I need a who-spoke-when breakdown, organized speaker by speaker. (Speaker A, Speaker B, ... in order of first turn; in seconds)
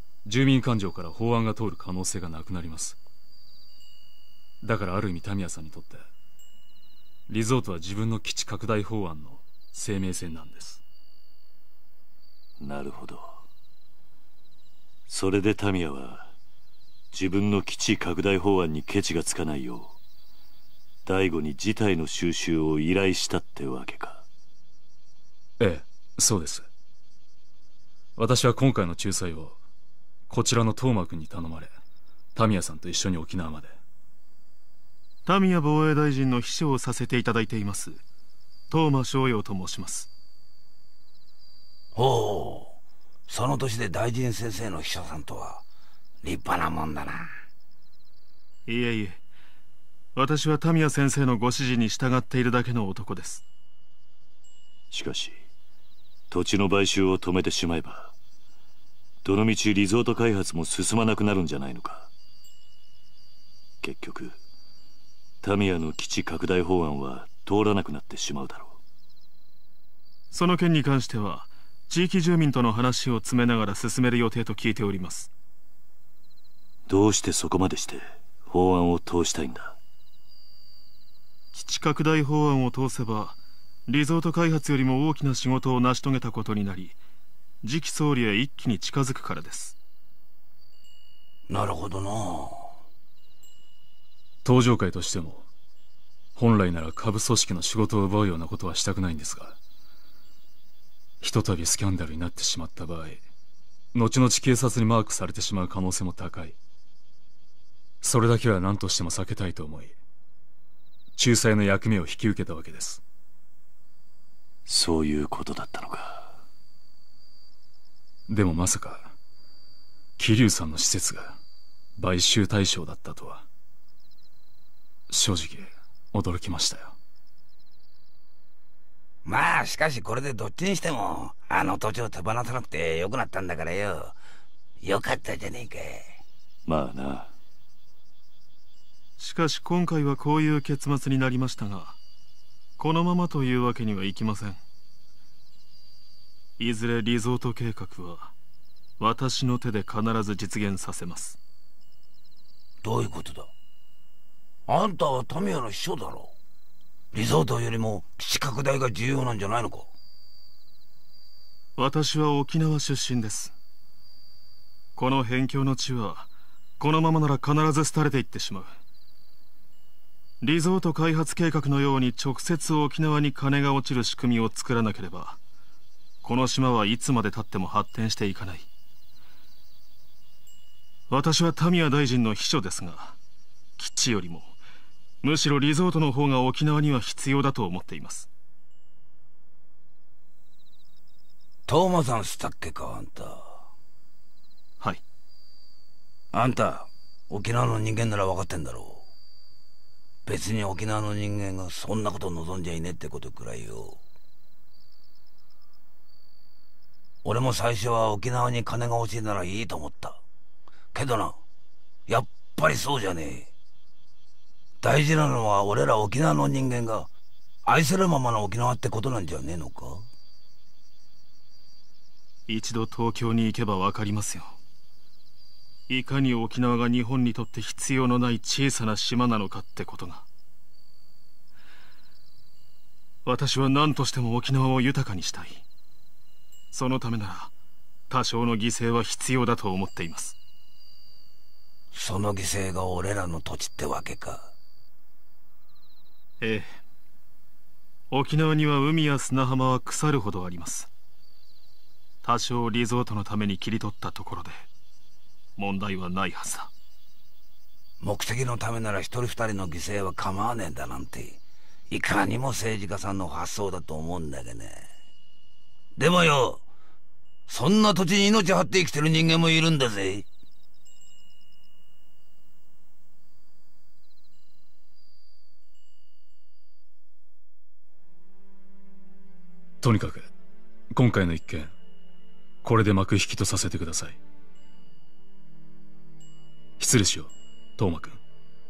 Speaker A: 0.2-3.0, 4.6-6.0, 7.3-10.8, 25.6-26.7, 28.1-29.6, 30.3-31.7, 32.3-33.7, 94.4-95.5, 96.3-99.6, 101.2-103.2, 103.9-106.6, 108.0-109.9, 111.2-113.0, 118.3-119.1, 120.2-121.4, 122.0-123.4, 125.1-127.0, 279.8-280.3, 280.9-281.7, 282.6-284.2, 286.8-288.2
Speaker B: 12.6-13.4, 15.1-16.3, 17.1-19.9, 21.1-24.2, 54.9-55.4, 56.3-58.1, 59.2-62.1, 63.8-64.3, 65.4-68.8, 76.9-79.8, 114.7-116.3, 136.7-137.3
Speaker C: 35.2-38.0, 38.7-40.1, 48.7-49.2, 50.1-53.4, 70.3-75.3, 81.5-83.4, 83.9-86.9, 87.6-89.8, 139.2-142.0, 142.8-144.6, 146.6-148.3, 149.0-151.4, 161.8-163.5, 164.9-168.7, 170.4-175.4, 176.2-178.7, 181.1-183.2, 183.8-184.5, 185.2-188.3, 222.5-224.6, 225.9-230.2, 233.2-235.6, 236.7-237.5, 238.1-240.3, 246.4-246.8, 248.1-250.9, 252.2-254.7, 255.6-256.7
Speaker D: 41.9-42.8, 43.3-45.6, 46.2-47.3, 91.5-92.7, 129.2-134.2, 134.8-136.1, 152.8-153.5, 154.7-156.3, 157.1-159.9, 191.7-193.6, 196.3-199.1, 200.2-204.0, 207.2-210.2, 210.9-211.4, 212.1-213.5, 214.8-217.1, 217.7-220.1, 241.9-244.5, 258.0-264.9, 265.9-266.6, 267.5-270.2